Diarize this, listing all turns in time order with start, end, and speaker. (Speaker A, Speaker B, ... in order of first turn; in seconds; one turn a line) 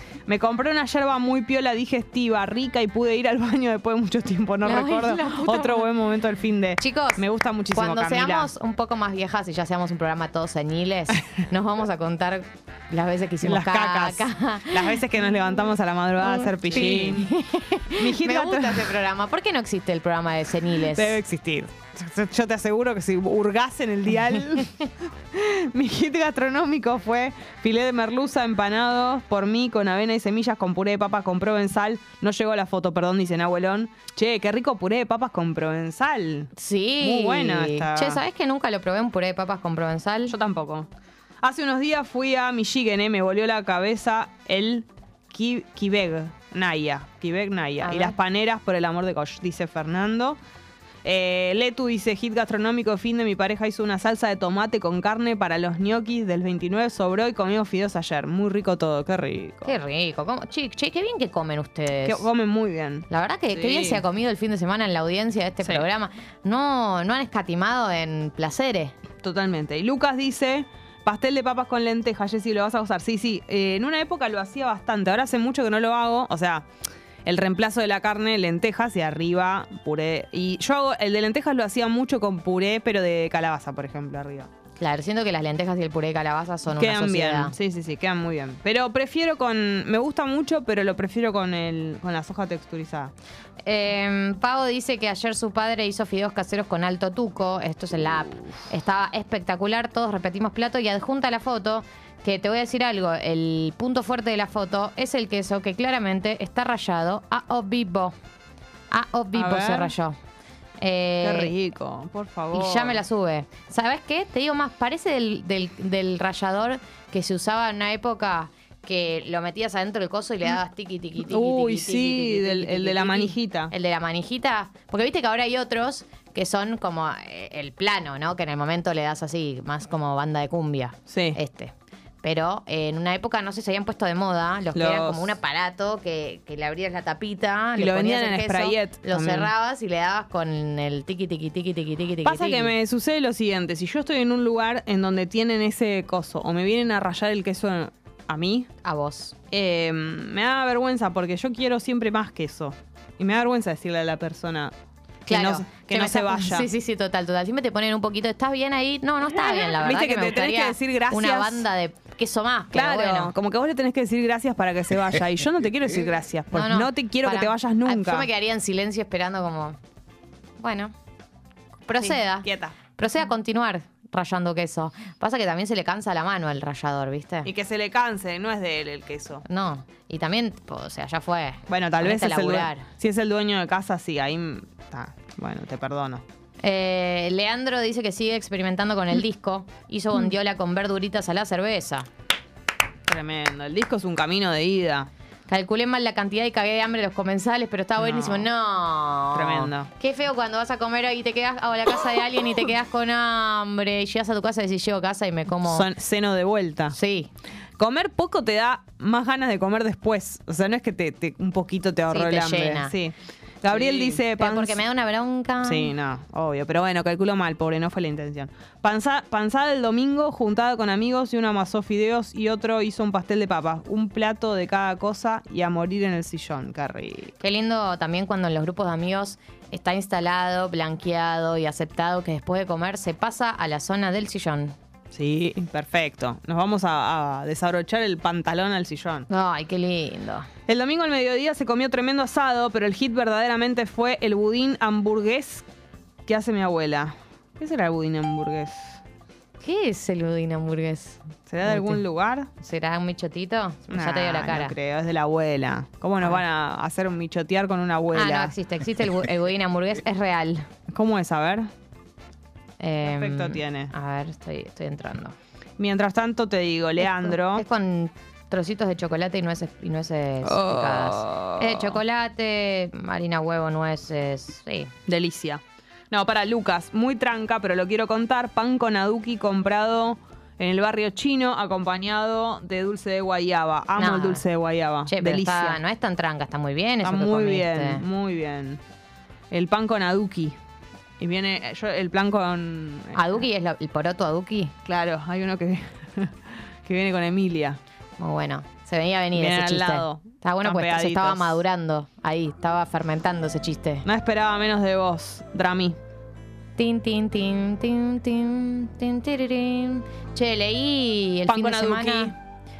Speaker A: 0.3-8.5
Speaker B: 4.6-5.8
Speaker B: 6.8-15.0
Speaker A: 13.4-17.3
Speaker B: 16.2-21.2
Speaker A: 17.9-18.9
Speaker A: 20.7-38.2
Speaker B: 36.5-40.3
Speaker A: 40.3-40.9
Speaker A: 41.4-50.4
Speaker B: 47.8-48.1
Speaker A: 51.0-59.8
Speaker B: 59.6-62.2
Speaker A: 62.0-64.0
Speaker B: 63.1-68.9
Speaker A: 69.2-76.7
Speaker A: 77.2-84.5
Speaker B: 84.8-87.5
Speaker A: 86.7-93.1
Speaker B: 93.6-108.1
Speaker B: 108.9-110.1
Speaker A: 109.3-109.9
Speaker B: 110.8-111.5
Speaker A: 111.2-113.0
Speaker B: 112.5-142.7
Speaker A: 121.2-123.7
Speaker A: 131.1-131.4
Speaker A: 134.7-135.3
Speaker A: 137.8-139.5
Speaker A: 142.2-148.7
Speaker B: 148.8-149.3
Speaker A: 149.5-154.7
Speaker B: 155.2-163.3
Speaker A: 155.3-156.7
Speaker A: 159.2-161.6
Speaker A: 162.7-168.3
Speaker B: 166.5-169.8
Speaker B: 170.6-170.9
Speaker B: 171.9-177.5
Speaker A: 172.0-172.8
Speaker A: 177.4-179.4
Speaker B: 179.4-182.9
Speaker A: 181.7-186.2
Speaker B: 186.6-192.1
Speaker A: 193.1-195.1
Speaker B: 195.5-205.9
Speaker A: 198.0-198.5
Speaker A: 199.3-199.9
Speaker A: 205.6-206.9
Speaker B: 206.9-207.3
Speaker A: 207.8-214.8
Speaker B: 212.1-212.9
Speaker B: 213.7-215.9
Speaker A: 215.6-227.3
Speaker B: 227.4-234.8
Speaker A: 235.1-239.3
Speaker B: 239.3-240.5
Speaker A: 240.7-245.7
Speaker A: 246.2-249.0
Speaker B: 249.6-252.0
Speaker A: 251.5-252.5
Speaker B: 252.6-254.7
Speaker A: 253.9-258.5
Speaker B: 258.1-260.6
Speaker A: 260.9-261.7
Speaker B: 262.8-265.3
Speaker A: 263.0-263.9
Speaker A: 265.8-267.6
Speaker B: 267.0-274.9
Speaker A: 270.4-272.0
Speaker A: 275.1-285.8
Speaker B: 284.0-284.4
Speaker B: 285.1-288.0
Speaker A: 287.0-288.8
Speaker A: 289.5-290.6
Speaker A: 291.2-293.4
Speaker B: 293.1-294.7
Speaker A: 294.8-297.8
Speaker B: 298.2-304.1
Speaker A: 299.3-301.6
Speaker A: 304.0-306.0
Speaker B: 306.8-312.3
Speaker A: 311.5-312.3